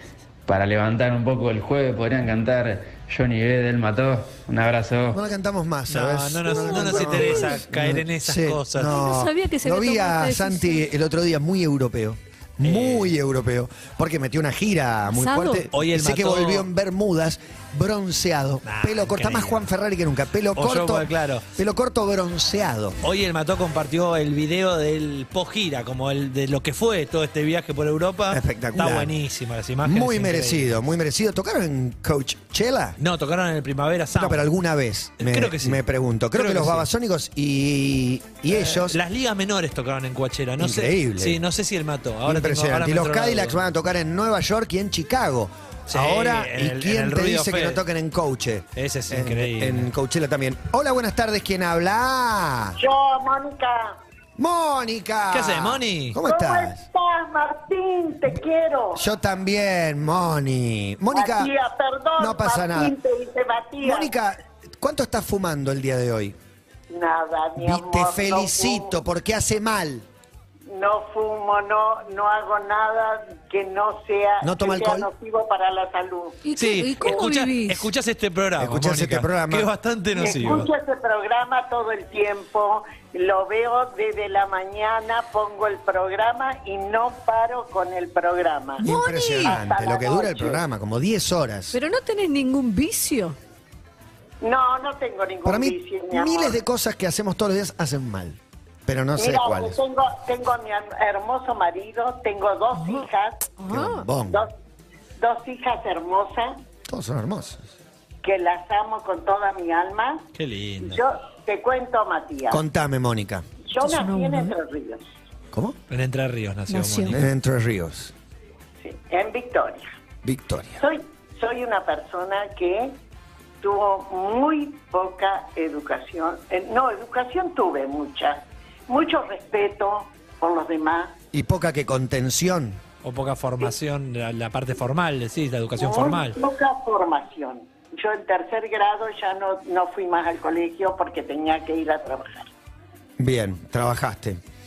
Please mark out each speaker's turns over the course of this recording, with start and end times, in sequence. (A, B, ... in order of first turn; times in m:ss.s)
0:00.5-0:05.2 A
0:05.1-0:23.0 B
0:05.9-0:09.0 C
0:06.5-0:07.6 D
0:08.9-0:10.9 D
0:12.6-0:13.1 C
0:15.1-0:15.7 D
0:15.7-0:16.7 C
0:18.6-0:19.7 C
0:20.6-0:21.5 C
0:23.0-0:30.7 C
0:28.3-0:29.1 B
0:29.8-0:33.0 B
0:33.0-0:34.5 C
0:34.2-0:39.0 B
0:35.2-0:35.8 C
0:36.3-0:36.9 C
0:38.5-0:43.6 C
0:40.6-0:41.4 B
0:42.2-0:52.8 B
0:45.9-0:47.8 C
0:48.8-0:49.9 C
0:52.8-0:54.0 E
0:54.4-0:56.8 B
0:55.3-0:56.2 C
0:56.2-0:59.0 E
0:59.0-1:01.5 B
1:01.1-1:04.1 E
1:02.2-1:02.9 B
1:03.8-1:06.4 B
1:06.9-1:09.0 E
1:07.6-1:10.1 B
1:10.7-1:16.4 E
1:14.4-1:15.1 B
1:16.4-1:17.9 D
1:16.6-1:20.7 C
1:18.6-1:19.7 B
1:20.2-1:28.8 E
1:28.8-1:29.6 D
1:28.8-1:31.8 B
1:29.4-1:30.6 E
1:31.7-1:33.4 D
1:34.4-1:36.6 E
1:35.4-1:39.8 B
1:39.2-1:43.5 E
1:42.8-1:44.1 D
1:43.7-1:44.5 B
1:45.2-1:46.6 E
1:46.9-1:47.7 B
1:48.2-1:50.3 E
1:50.4-1:51.0 C
1:50.8-1:52.6 E
1:52.5-1:53.4 B
1:53.7-1:55.1 E
1:53.8-1:54.5 D
1:55.9-1:57.3 C
1:56.7-1:57.2 D
1:57.1-1:58.1 B
1:58.8-1:59.9 E
2:00.2-2:00.8 B
2:00.8-2:03.0 E
2:03.6-2:11.2 E
2:11.3-2:12.8 B
2:13.0-2:16.4 C
2:15.8-2:22.5 E
2:23.2-2:24.4 B